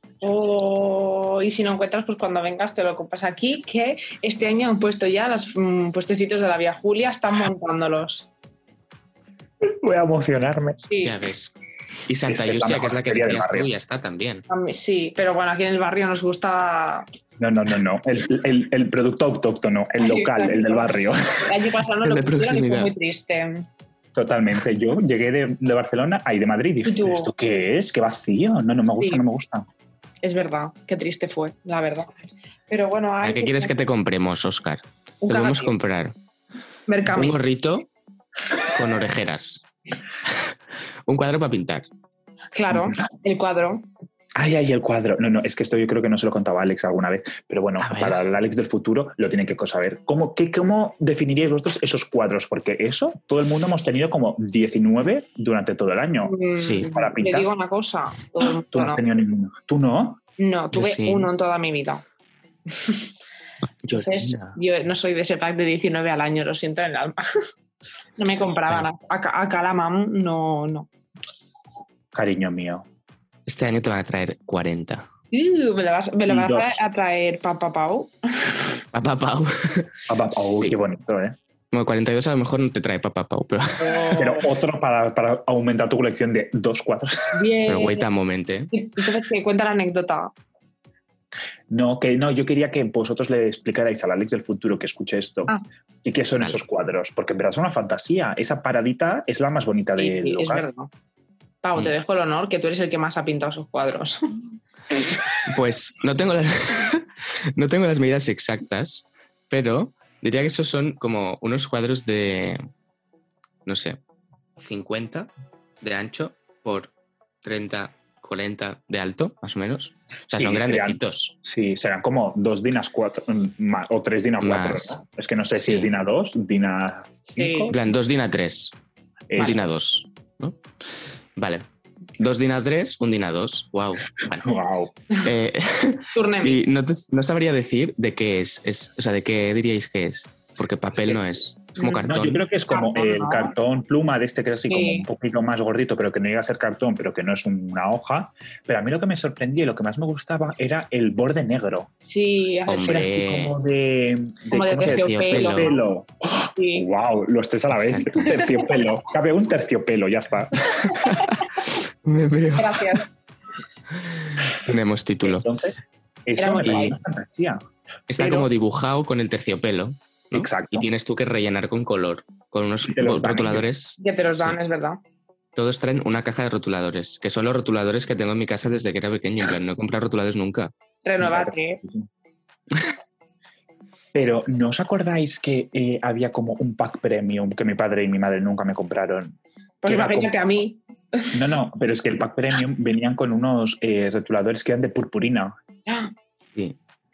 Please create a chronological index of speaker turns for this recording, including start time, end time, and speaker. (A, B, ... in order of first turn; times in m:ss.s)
0:00.2-0:08.3 A
0:09.6-0:10.8 B
0:10.9-0:11.1 A
0:11.0-0:11.5 C
0:12.1-0:14.4 C
0:12.2-0:13.7 B
0:14.5-0:17.1 A
0:17.4-0:21.5 B
0:20.0-0:23.6 A
0:22.0-0:22.9 C
0:24.1-0:29.6 B
0:26.8-0:27.3 A
0:30.2-0:32.1 A
0:32.7-0:33.7 A
0:33.2-0:36.1 C
0:35.2-0:35.7 A
0:36.9-0:37.4 A
0:37.1-0:37.9 C
0:38.7-0:39.6 C
0:41.1-0:41.8 C
0:42.5-0:43.8 A
0:44.4-0:57.5 B
0:47.8-0:48.2 C
0:56.2-0:59.0 A
0:56.6-0:56.9 C
0:58.7-1:00.2 B
1:00.4-1:02.0 A
1:00.7-1:01.3 C
1:02.7-1:03.0 A
1:03.8-1:04.6 C
1:03.9-1:07.3 A
1:08.2-1:10.9 A
1:12.1-1:12.8 B
1:13.4-1:15.1 C
1:15.3-1:18.5 A
1:16.3-1:16.8 B
1:18.9-1:20.8 C
1:20.1-1:21.4 B
1:21.7-1:24.0 C
1:23.8-1:24.5 A
1:24.1-1:27.3 B
1:27.3-1:28.1 A
1:27.7-1:28.7 C
1:28.7-1:30.3 A
1:31.7-1:35.5 B
1:36.0-1:40.7 B
1:40.0-1:40.9 A
1:41.6-1:44.2 A
1:45.4-1:52.6 C
1:53.6-1:54.0 C
1:54.6-1:56.9 C
1:57.4-2:01.3 C
2:00.3-2:07.8 B
2:04.4-2:04.9 C
2:05.5-2:05.9 C
2:07.3-2:07.7 A
2:07.7-2:08.7 C
2:09.3-2:09.6 B
2:09.4-2:10.6 C
2:11.4-2:11.6 C
2:12.2-2:14.6 C
2:14.4-2:14.9 B
2:15.2-2:22.4 C
2:16.1-2:16.6 A
2:21.8-2:22.0 A
2:22.0-2:31.9 B
2:22.7-2:23.5 A
2:24.7-2:25.0 A
2:32.1-2:33.1 A
2:32.7-2:33.5 C
2:32.7-2:40.9 B
2:34.5-2:35.8 A
2:34.7-2:35.7 C
2:36.6-2:36.8 A
2:37.8-2:38.2 C
2:41.0-2:41.2 C
2:42.0-2:43.0 C
2:42.6-2:43.1 A
2:44.0-2:45.4 C
2:45.2-2:45.7 B
2:46.2-2:47.6 B
2:46.4-2:47.0 A
2:46.6-2:46.9 C
2:48.1-2:54.6 C
2:48.2-2:48.5 A
2:50.3-2:50.9 B
2:52.8-2:53.6 B
2:54.0-2:55.0 A
2:55.5-3:00.7 C
3:01.0-3:01.8 A
3:01.2-3:02.1 B
3:04.1-3:10.3 B
3:09.8-3:11.4 A
3:11.3-3:15.6 B